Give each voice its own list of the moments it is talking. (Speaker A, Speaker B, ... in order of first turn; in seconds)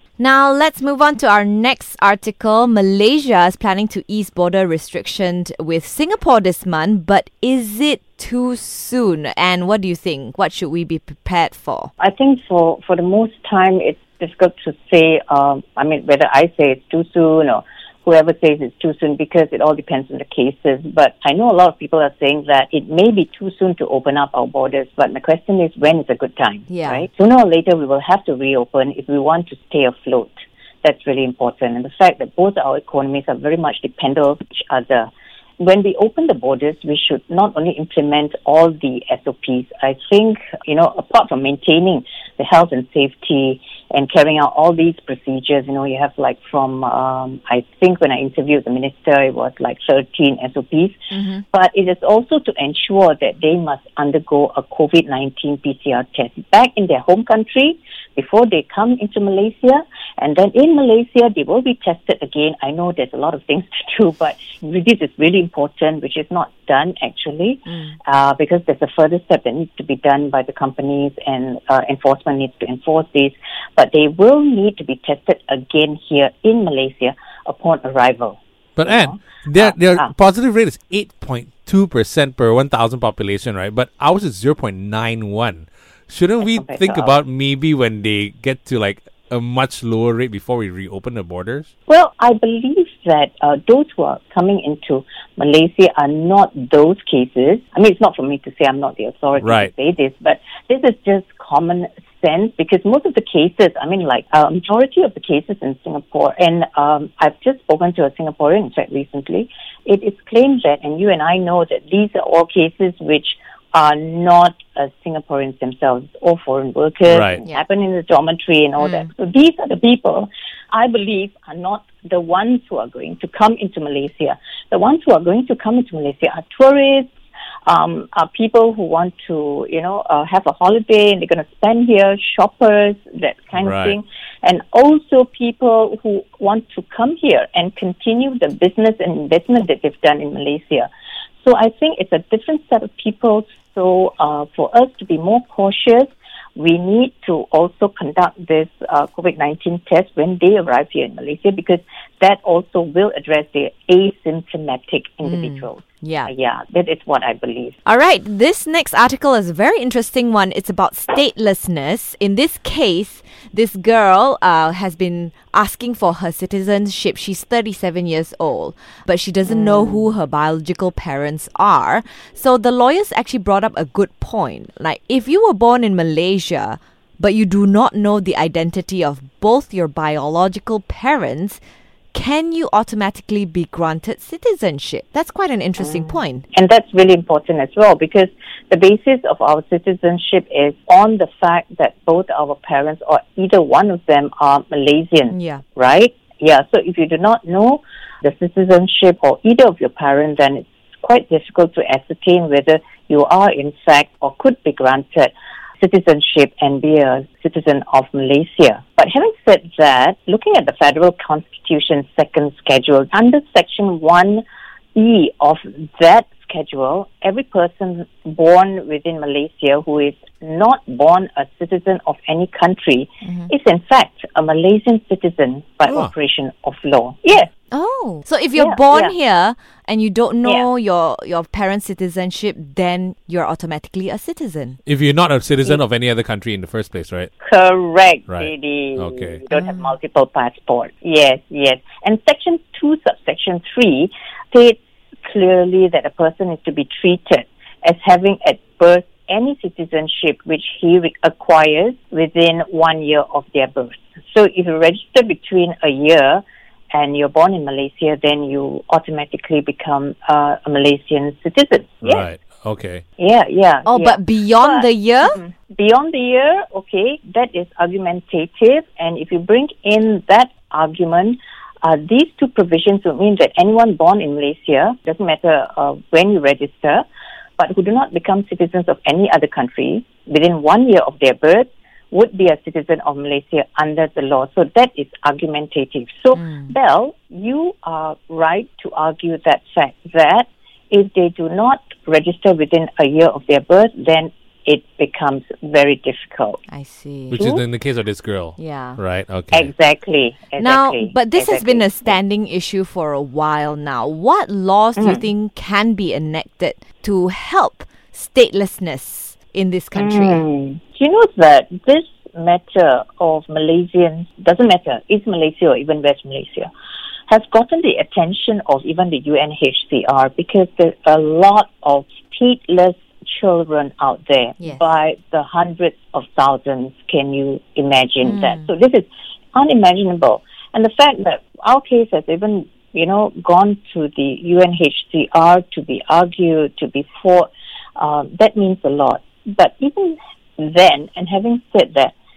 Speaker A: 0.2-11.9, 26.7-27.1, 51.1-51.4, 67.7-67.9, 118.8-119.1, 155.2-156.3, 157.8-181.6, 182.1-186.4, 195.3-195.6, 223.2-223.5, 227.7-234.8, 263.9-265.4, 286.4-286.7, 296.7-297.5, 298.6-299.0, 300.6-310.4, 324.6-324.9, 328.2-328.7
Speaker B: 12.0-51.0, 51.5-80.1, 86.4-87.2, 91.9-127.1, 127.7-140.9, 141.4-157.8, 169.4-170.1, 185.8-214.4, 214.9-227.5, 228.6-229.1, 237.4-262.2, 263.2-277.0, 277.6-296.6, 297.4-297.6, 299.5-302.1, 305.0-305.3, 309.9-316.7, 317.3-342.1
Speaker C: 78.8-91.7, 99.4-99.7, 117.1-117.4, 133.5-134.0, 225.9-226.1, 234.8-237.3, 238.3-239.4, 262.0-263.0, 297.3-299.7